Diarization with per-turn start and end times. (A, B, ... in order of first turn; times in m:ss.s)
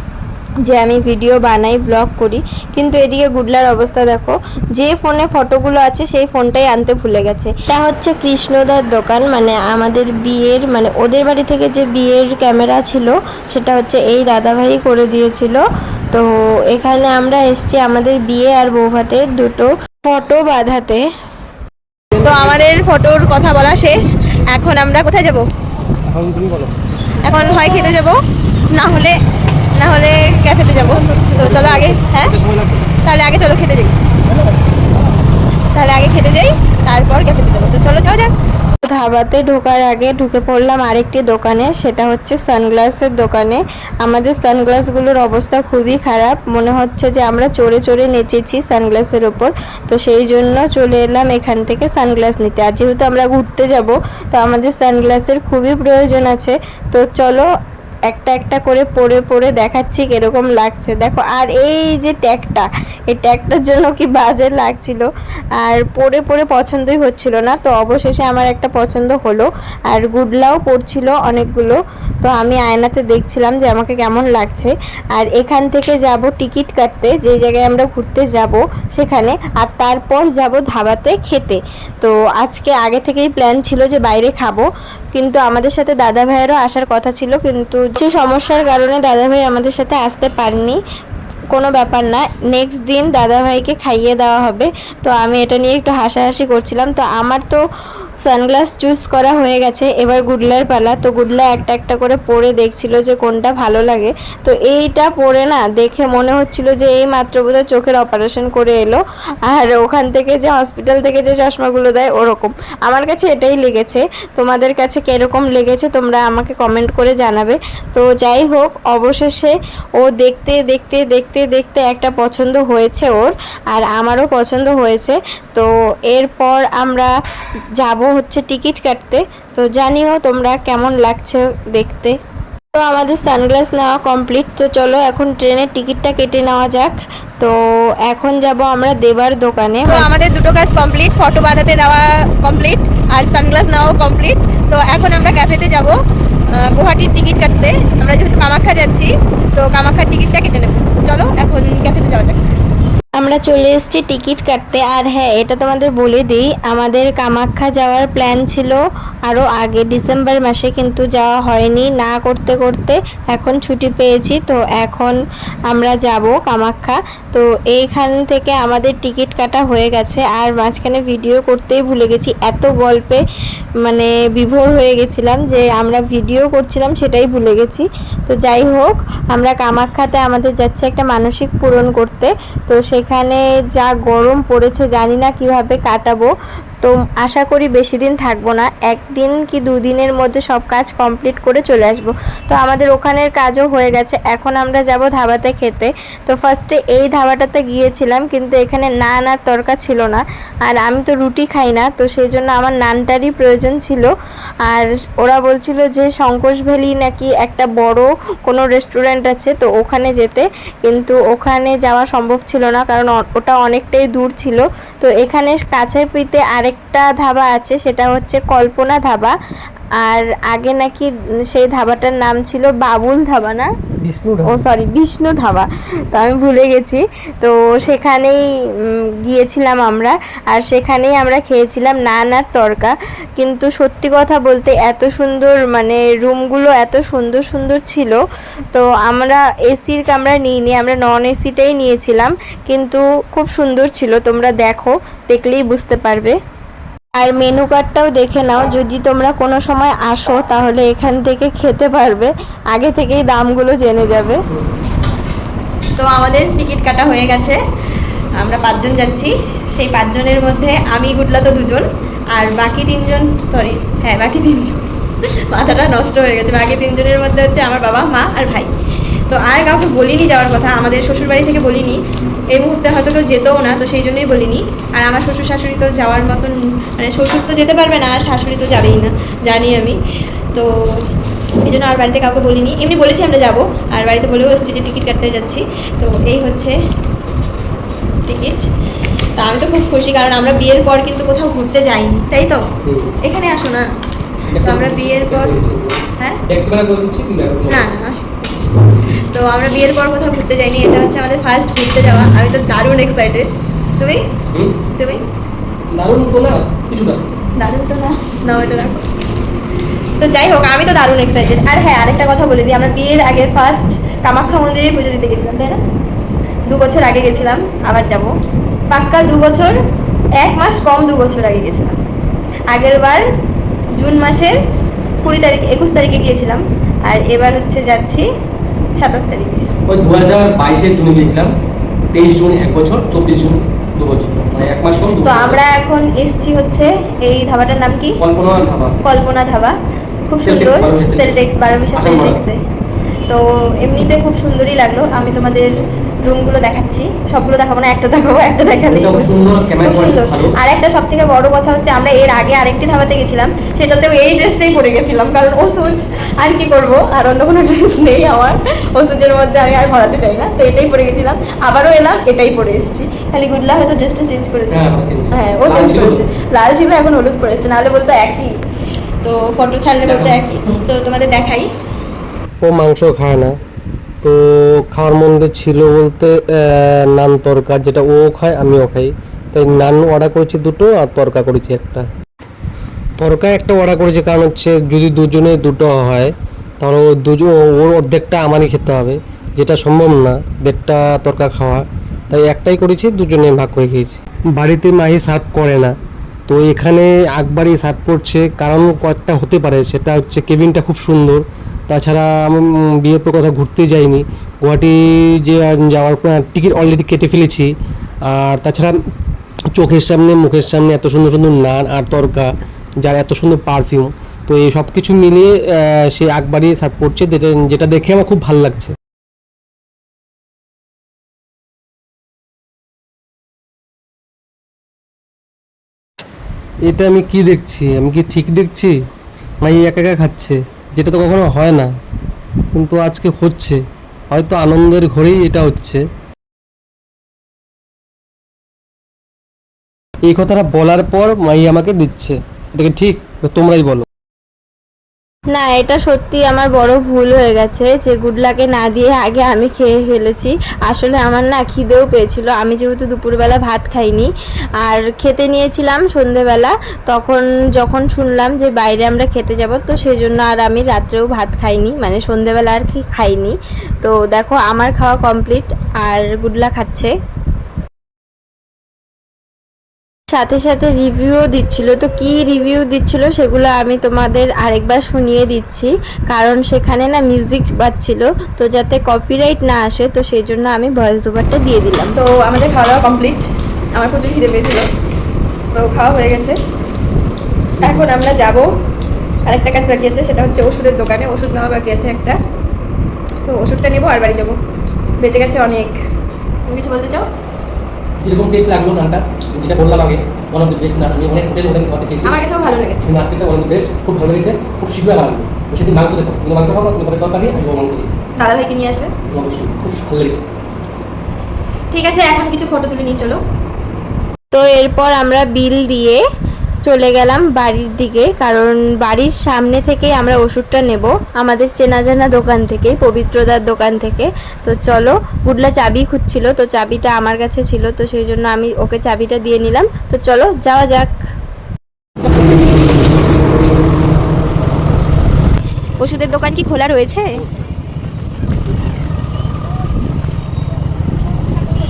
0:00.6-0:21.0 A
0:22.2-0:25.5 B
0:26.1-0:26.7 C
0:27.2-0:28.2 B
0:28.7-0:29.2 B
0:29.7-0:32.4 B
0:32.4-0:32.8 C
0:33.0-0:33.9 B
0:35.7-0:38.3 B
0:38.8-0:57.5 A
0:58.1-1:05.1 A
1:05.6-1:30.8 A
1:31.5-1:37.6 A
1:38.2-2:07.1 A
2:07.8-2:12.1 A
2:12.7-2:20.0 A
2:19.8-2:25.9 B
2:26.5-2:32.4 B
2:33.2-2:45.2 A
2:45.7-2:53.2 A
2:53.8-3:06.3 A
3:06.8-3:24.1 A
3:24.6-3:39.3 A
3:40.0-3:43.7 A
3:44.1-3:44.4 D
3:44.4-3:48.4 A
3:49.2-3:58.2 A
3:58.7-4:06.3 A
4:07.2-4:14.4 A
4:16.0-4:17.6 B
4:18.4-4:28.7 B
4:29.3-4:32.0 B
4:32.5-4:40.0 B
4:40.5-4:41.1 B
4:41.6-4:46.8 B
4:48.2-4:48.7 B
4:49.4-4:52.6 B
4:52.8-4:53.1 D
4:53.2-4:53.8 B
4:54.5-4:57.9 D
4:54.6-4:55.6 B
4:57.7-5:04.2 B
5:04.5-5:04.8 D
5:05.0-5:05.2 B
5:05.9-5:07.3 D
5:07.6-5:09.0 B
5:10.2-5:15.8 B
5:16.7-5:18.3 B
5:18.9-5:19.8 B
5:20.4-5:22.0 B
5:22.7-5:23.2 B
5:24.0-5:24.6 B
5:25.2-5:28.3 B
5:28.9-5:29.7 B
5:29.9-5:31.5 D
5:32.1-5:35.6 D
5:35.2-5:38.2 B
5:38.2-5:38.9 D
5:39.0-5:39.7 B
5:40.3-5:42.6 B
5:40.4-5:41.4 D
5:42.0-5:42.4 D
5:43.3-6:08.5 B
5:48.8-5:50.5 D
6:04.7-6:06.2 D
6:09.2-6:11.7 B
6:10.0-6:10.4 D
6:12.6-6:13.5 C
6:14.2-6:22.1 C
6:23.2-6:35.9 C
6:36.5-6:47.7 C
6:48.2-6:49.0 C
6:49.7-6:52.5 C
6:53.0-6:58.9 C
7:06.9-7:08.9 C
7:09.6-7:11.9 C
7:12.7-7:13.8 C
7:14.3-7:16.0 C
7:20.2-7:24.0 C
7:25.5-7:34.3 A
7:34.8-7:47.1 A
7:50.3-8:02.1 A
8:02.2-8:04.9 B
8:05.7-8:06.6 B
8:07.8-8:08.1 D
8:07.8-8:08.7 B
8:09.4-8:12.4 B
8:13.4-8:14.6 B
8:15.2-8:16.0 B
8:16.6-8:17.3 B
8:18.2-8:22.4 D
8:22.2-8:23.2 B
8:23.0-8:28.1 D
8:28.4-8:29.1 B
8:29.3-8:30.4 D
8:31.9-8:33.4 B
8:34.5-8:36.2 A
8:36.8-8:51.1 A
8:56.0-8:57.4 B